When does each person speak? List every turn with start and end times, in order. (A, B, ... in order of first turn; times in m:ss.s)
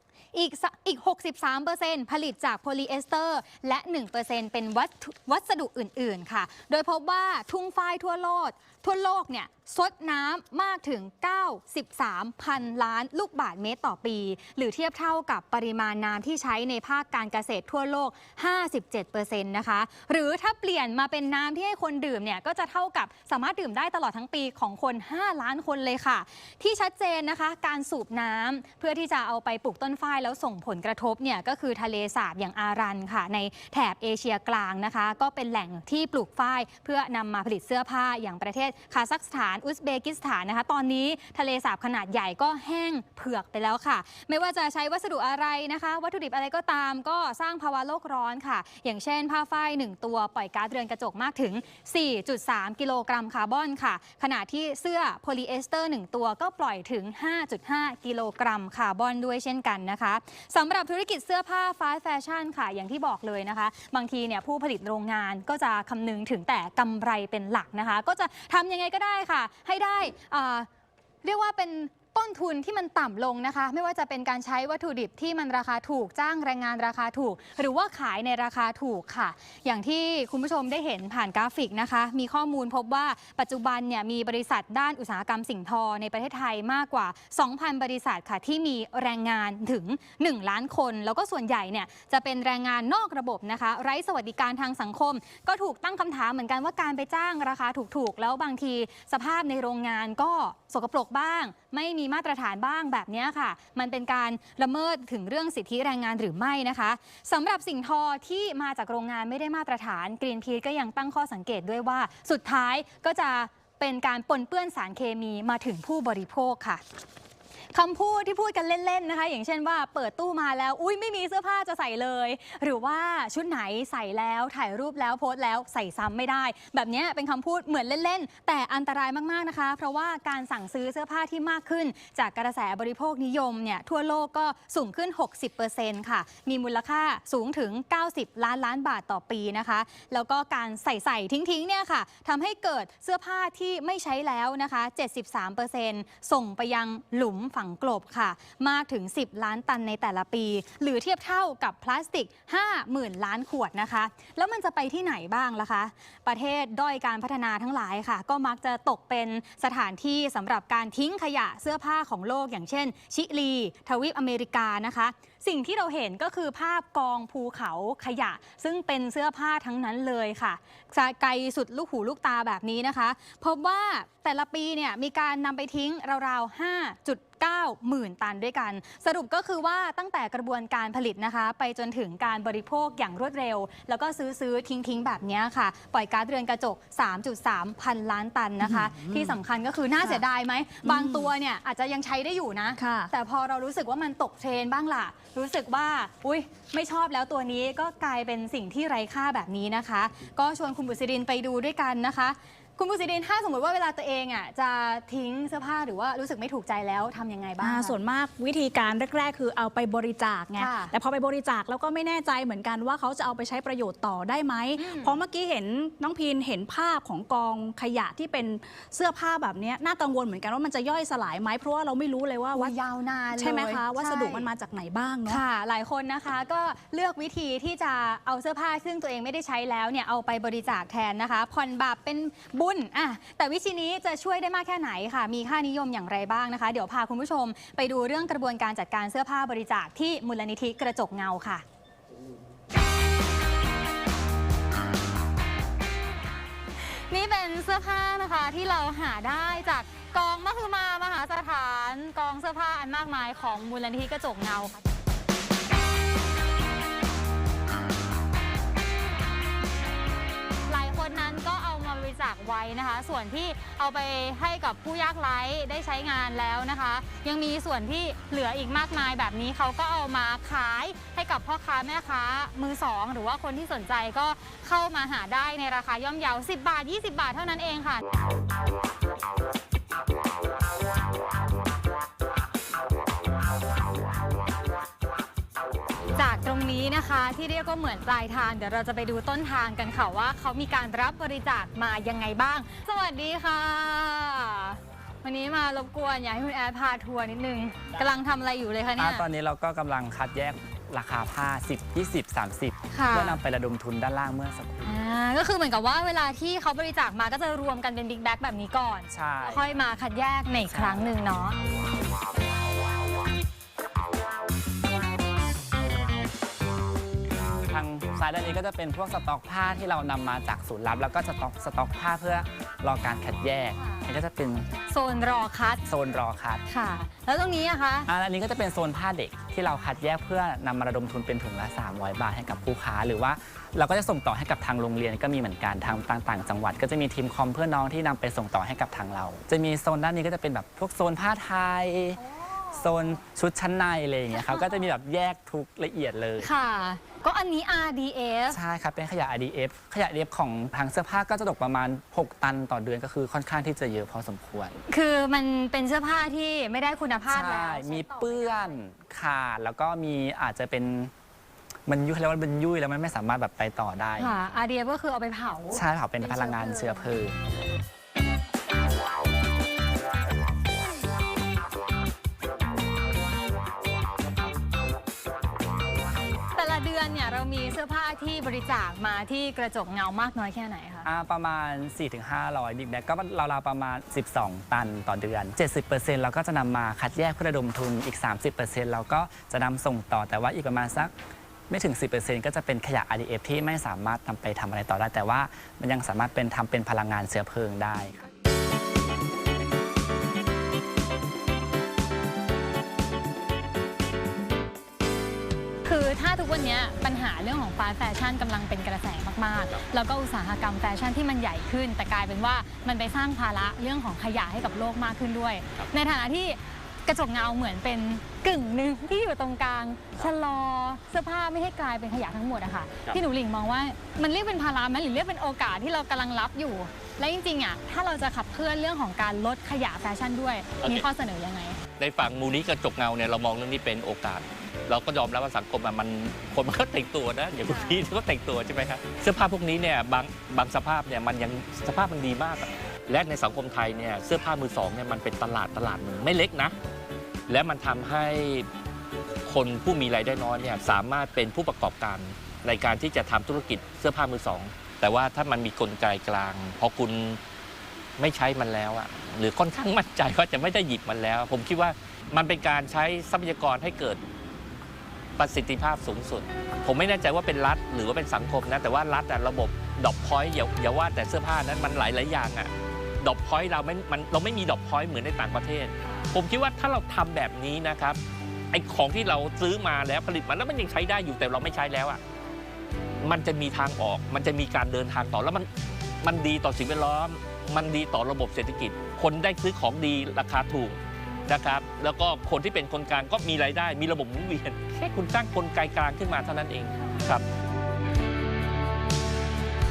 0:00.3-1:10.7 A
1:11.2-1:56.8 A
1:57.7-3:28.0 A
3:08.6-3:09.4 B
3:10.8-3:11.3 B
3:12.7-3:13.1 B
3:27.6-3:42.7 B
3:30.6-3:30.9 A
3:34.8-3:35.2 A
3:42.5-3:44.5 A
3:43.3-3:45.4 B
3:45.3-4:01.6 A
4:06.8-4:14.8 A
4:20.7-4:38.0 A
4:46.2-4:59.2 A
4:59.0-5:05.0 C
5:02.9-5:03.4 A
5:04.8-5:11.6 A
5:09.1-5:09.7 C
5:10.7-5:11.1 C
5:17.7-5:24.7 C
5:23.8-5:24.0 A
5:24.9-5:25.8 A
5:25.8-5:26.6 C
5:26.7-5:28.1 A
5:28.0-5:46.5 C
5:42.3-5:43.2 A
5:44.3-5:44.9 A
5:46.4-5:48.6 A
5:48.5-5:54.8 C
5:54.9-5:58.8 A
5:57.3-6:01.1 C
6:01.8-6:04.4 C
6:04.2-6:07.1 A
6:05.7-6:07.4 C
6:16.5-6:21.0 A
6:21.0-6:31.1 C
6:31.7-6:38.2 C
6:45.8-7:11.8 A
7:10.8-7:11.0 D
7:12.0-7:26.7 D
7:17.6-7:18.0 A
7:27.5-7:28.7 D
7:29.5-7:37.4 D
7:38.2-7:44.2 D
7:45.4-7:58.2 D
7:58.7-8:02.2 D
8:03.2-8:05.7 D
8:06.2-8:17.4 D